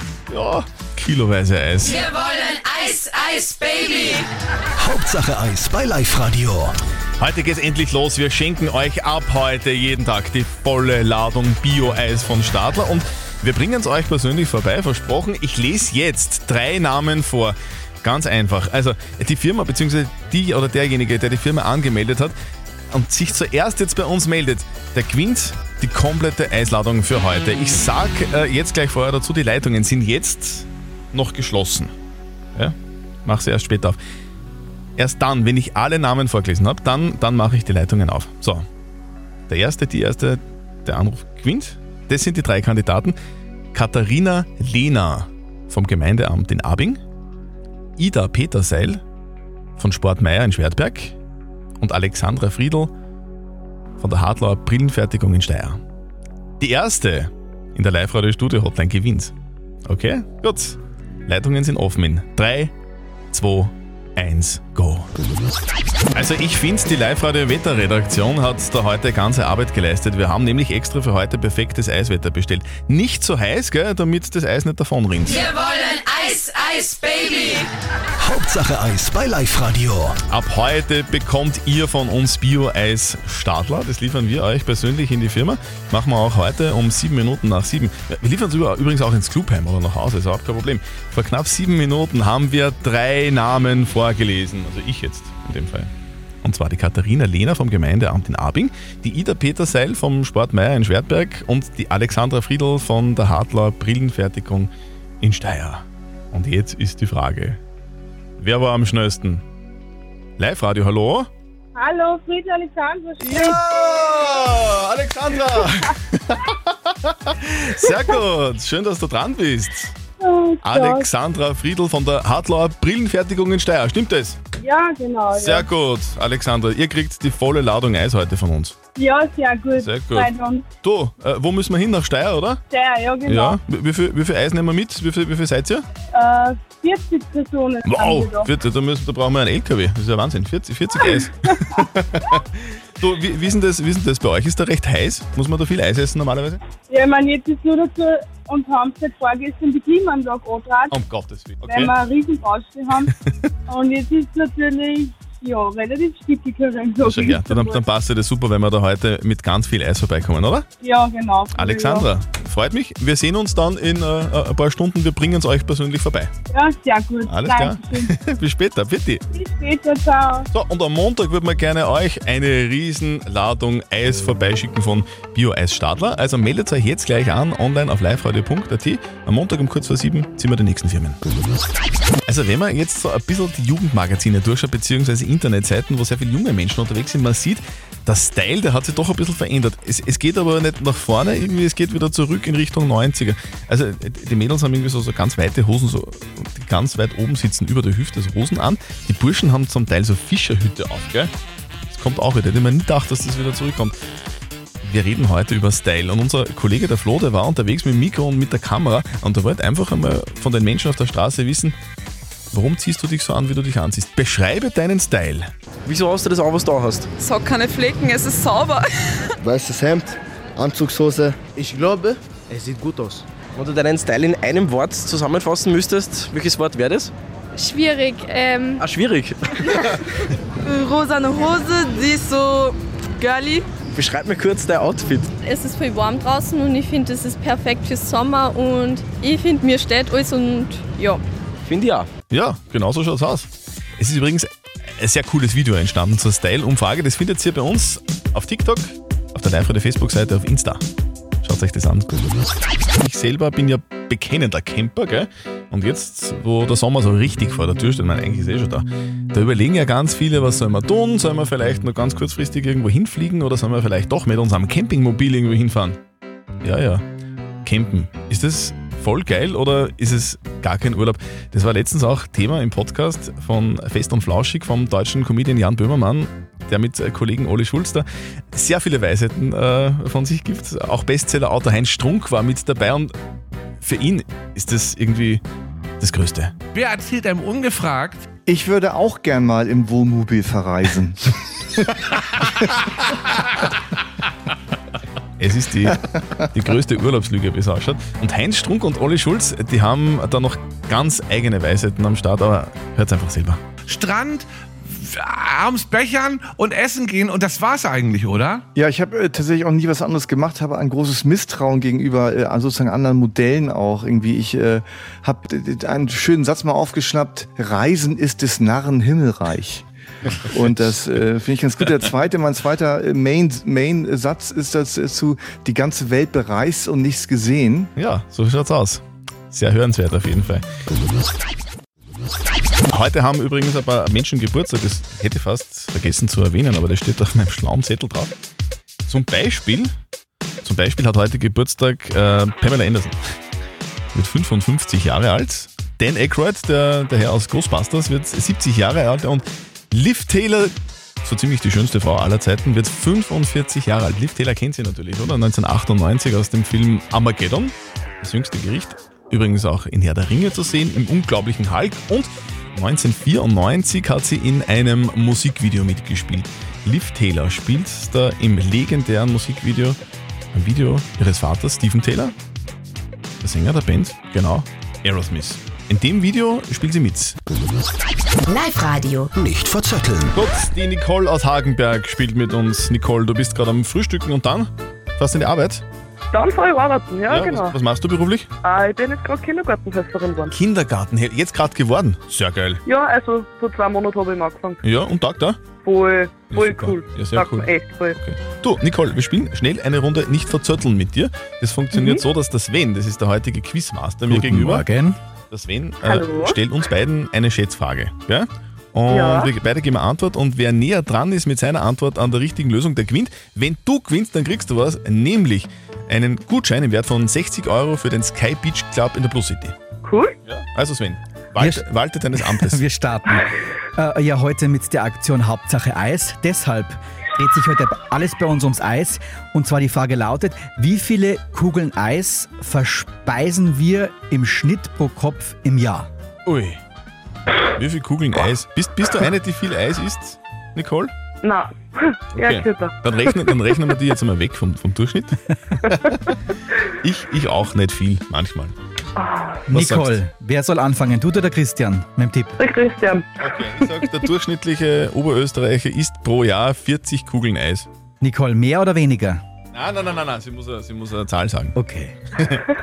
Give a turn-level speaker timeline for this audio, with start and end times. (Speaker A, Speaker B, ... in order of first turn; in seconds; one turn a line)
Speaker A: 0.3-2.1
Speaker B: 4.8-6.7
Speaker A: 7.2-22.3
Speaker A: 22.9-31.9
Speaker A: 32.5-34.0
Speaker A: 35.0-38.6
Speaker A: 39.5-43.1
Speaker A: 43.7-47.0
Speaker A: 48.0-49.0
Speaker A: 49.8-51.1
Speaker A: 51.8-52.9
Speaker A: 54.0-55.8
Speaker A: 56.6-59.3
Speaker A: 59.9-62.7
Speaker A: 63.3-65.1
Speaker A: 66.1-75.5
Speaker C: 75.8-77.5
Speaker B: 78.2-80.2
Speaker A: 80.3-95.9
Speaker A: 96.4-107.6
Speaker A: 108.4-109.4
Speaker A: 110.4-111.3
Speaker D: 111.8-113.4
Speaker A: 113.2-119.9
Speaker D: 120.2-121.0
Speaker A: 120.6-124.4
Speaker D: 124.6-125.6
Speaker A: 125.3-128.8
Speaker D: 129.0-130.7
Speaker A: 129.8-132.6
Speaker D: 132.7-133.5
Speaker A: 133.2-135.8
Speaker D: 136.1-138.5
Speaker A: 137.8-146.6
Speaker D: 146.9-150.9
Speaker A: 150.9-151.9
Speaker D: 151.7-153.0
Speaker D: 153.7-157.8
Speaker A: 157.0-160.6
Speaker D: 160.8-162.0
Speaker A: 161.5-166.3
Speaker D: 166.5-168.1
Speaker A: 167.3-169.2
Speaker D: 169.3-170.4
Speaker A: 170.5-181.2
Speaker A: 182.3-201.3
Speaker A: 201.9-203.9
Speaker A: 204.8-211.7
Speaker A: 212.5-215.5
Speaker E: 215.8-217.1
Speaker F: 217.2-218.9
Speaker G: 219.4-223.2
Speaker E: 223.6-227.1
Speaker H: 227.6-228.7
Speaker E: 228.8-229.3
Speaker F: 230.7-233.6
Speaker E: 233.9-235.3
Speaker H: 235.4-241.2
Speaker E: 241.7-242.0
Speaker A: 242.3-243.5
Speaker A: 244.0-244.5
Speaker A: 245.0-250.8
Speaker A: 251.4-252.1
Speaker A: 253.0-266.0
Speaker A: 266.6-267.0
Speaker A: 267.6-283.1
Speaker A: 283.8-285.4
Speaker A: 286.0-286.5
Speaker I: 286.7-288.2
Speaker J: 288.4-291.4
Speaker A: 295.4-296.0
Speaker A: 296.5-303.6
Speaker I: 303.9-308.6
Speaker J: 308.7-319.8
Speaker J: 320.4-327.9
Speaker A: 327.9-330.6
Speaker A: 332.9-338.3
Speaker A: 339.1-339.9
Speaker A: 340.6-343.2
Speaker A: 344.1-350.7
Speaker A: 351.2-370.0
Speaker A: 370.5-372.3
Speaker A: 373.4-377.4
Speaker C: 378.5-379.3
Speaker B: 379.4-380.3
Speaker A: 380.3-385.8
Speaker K: 386.3-387.7
Speaker A: 387.3-388.5
Speaker K: 388.6-390.5
Speaker A: 390.5-392.8
Speaker K: 392.9-394.8
Speaker A: 394.8-395.6
Speaker K: 395.8-398.2
Speaker A: 396.5-404.9
Speaker K: 401.9-402.2
Speaker L: 404.3-405.2
Speaker A: 405.5-419.7
Speaker K: 406.0-406.6
Speaker K: 409.1-409.5
Speaker K: 420.0-420.3
Speaker A: 420.5-422.8
Speaker L: 421.6-436.1
Speaker A: 436.4-436.8
Speaker A: 437.8-441.1
Speaker K: 441.4-443.7
Speaker A: 442.3-446.2
Speaker A: 447.0-448.7
Speaker K: 449.2-449.6
Speaker L: 449.7-452.6
Speaker A: 449.7-450.2
Speaker K: 452.6-453.2
Speaker A: 453.4-457.9
Speaker L: 458.2-459.4
Speaker A: 459.7-461.7
Speaker L: 461.8-462.1